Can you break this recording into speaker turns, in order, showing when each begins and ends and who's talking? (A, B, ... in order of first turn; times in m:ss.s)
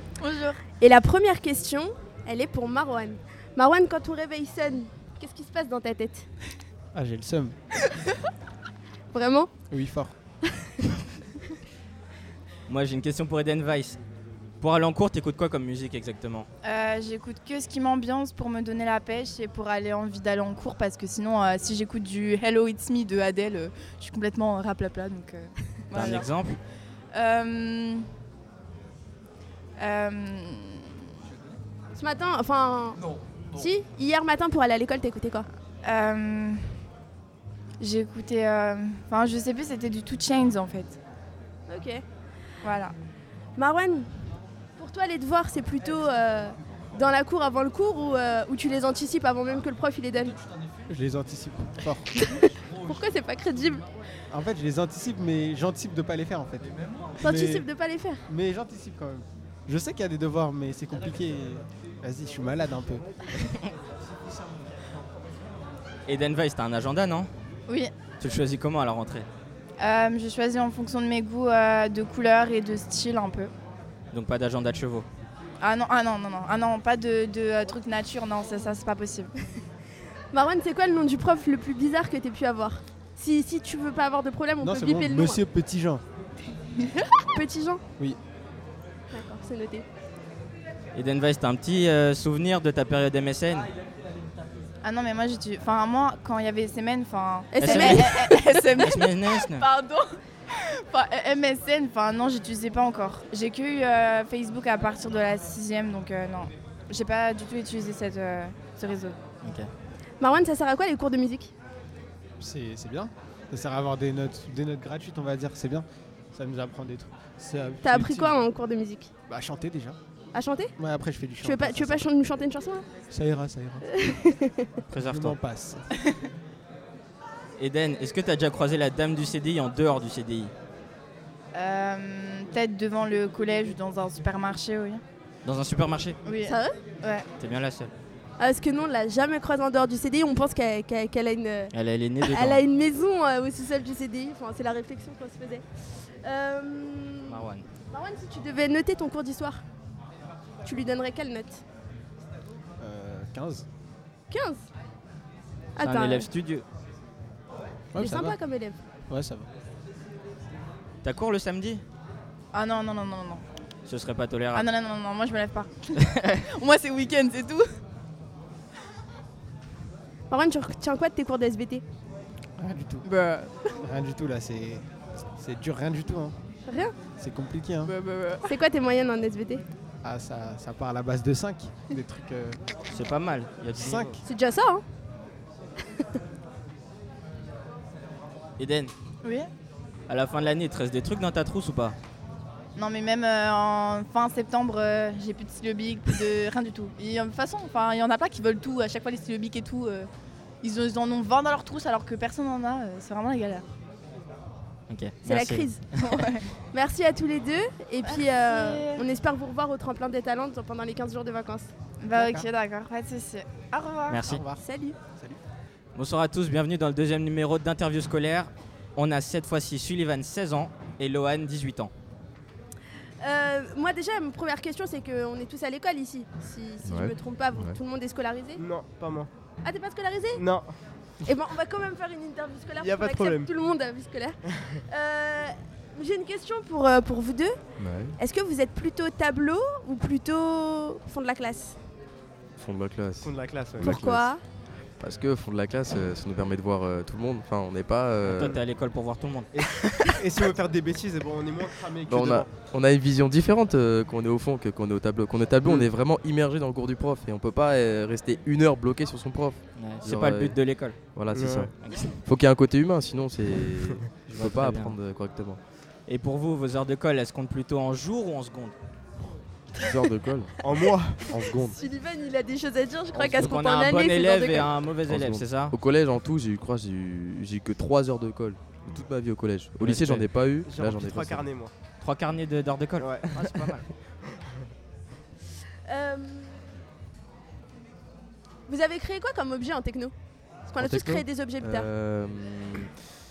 0:00.2-0:00.6 A
0:00.7-0:06.3 B
0:06.9-0:07.6 C
0:09.1-0:09.5 B
0:09.7-0:10.2 C
0:12.7-0:14.0 D
0:14.6-0:16.5 D
0:16.6-0:26.3 A
0:25.9-0:26.6 D
0:27.1-0:28.0 A
0:29.8-0:30.9 A
0:32.0-0:35.5 B
0:35.8-0:36.8 A
0:37.8-0:41.0 A
0:41.7-0:42.0 B
0:42.6-0:42.9 A
0:43.6-0:44.1 B
0:44.8-0:50.4 B
0:50.9-0:52.2 C
0:52.1-0:53.9 B
0:54.3-0:57.7 C
0:57.2-0:58.2 B
0:58.3-1:03.0 C
1:06.1-1:07.3 D
1:08.2-1:09.3 D
1:09.8-1:13.5 A
1:14.1-1:15.1 D
1:15.6-1:19.3 A
1:20.3-1:25.4 B
1:24.6-1:26.0 C
1:27.3-1:27.8 B
1:29.1-1:29.9 B
1:30.9-1:33.7 D
1:34.8-1:49.2 A
1:37.5-1:38.4 B
1:37.6-1:39.7 D
1:49.4-1:49.7 D
1:50.2-1:51.5 B
1:52.4-1:58.5 C
1:57.8-1:59.1 B
1:59.3-2:00.0 C
2:00.3-2:00.7 B
2:00.8-2:02.1 C
2:01.4-2:02.9 B
2:03.1-2:03.9 C
2:03.8-2:04.7 B
2:04.9-2:05.4 D
2:04.9-2:05.8 C
2:07.6-2:10.5 D
2:11.5-2:15.0 A
2:15.4-2:16.2 D
2:16.2-2:17.3 A
2:16.4-2:16.8 B
2:17.4-2:17.9 D
2:18.4-2:25.7 B
2:21.7-2:22.6 D
2:26.2-2:29.6 B
2:27.3-2:27.7 D
2:30.6-2:31.6 B
2:32.8-2:33.7 C
2:34.3-2:34.6 B
2:35.8-2:36.3 B
2:35.8-2:36.7 D
2:37.9-2:38.4 C
2:38.0-2:38.8 B
2:39.1-2:39.5 C
2:41.0-2:41.8 D
2:42.5-2:43.4 A
2:43.9-2:44.7 D
2:44.5-2:47.8 A
2:50.3-2:51.8 B
2:52.6-2:53.1 C
2:53.0-2:53.6 A
2:53.8-2:56.4 C
2:56.7-2:57.0 B
2:57.1-2:57.9 C
2:57.8-2:58.6 A
2:58.4-2:59.6 B
3:00.0-3:02.6 C
3:02.9-3:04.2 D
3:03.7-3:04.2 C
3:04.2-3:04.8 B
3:08.6-3:08.9 D
3:10.1-3:12.0 D
3:12.8-3:20.1 A
3:20.6-3:23.7 A
3:24.9-3:25.8 D
3:25.2-3:25.8 B
3:25.9-3:26.5 A
3:26.7-3:31.7 B
3:28.0-3:29.0 A
3:32.0-3:34.2 A
3:32.1-3:32.5 C
3:34.1-3:34.4 D
3:34.2-3:35.4 C
3:34.6-3:35.0 B
3:36.0-3:41.9 D
3:43.2-3:48.6 B
3:46.8-3:47.8 E
3:48.6-3:49.3 F
3:49.6-3:50.4 B
3:50.3-3:50.7 F
3:51.2-3:57.6 B
3:52.8-3:53.5 F
3:57.8-3:58.2 E
3:58.1-4:01.8 B
4:02.6-4:04.3 E
4:03.2-4:04.0 F
4:03.8-4:04.4 B
4:05.0-4:08.5 E
4:08.2-4:09.5 D
4:09.5-4:12.5 F
4:12.1-4:25.6 E
4:15.6-4:15.9 F
4:19.8-4:21.0 D
4:21.3-4:21.7 F
4:21.8-4:22.1 D
4:24.3-4:25.0 D
4:26.1-4:28.8 D
4:29.7-4:30.5 E
4:30.6-4:31.3 F
4:31.3-4:31.8 E
4:31.5-4:34.7 B
4:33.1-4:35.7 D
4:35.1-4:41.4 E
4:39.8-4:40.3 D
4:40.6-4:41.7 F
4:42.0-4:43.9 D
4:43.0-4:43.7 F
4:45.9-4:46.6 B
4:48.7-4:50.1 B
4:50.7-4:51.9 B
4:50.8-4:52.9 E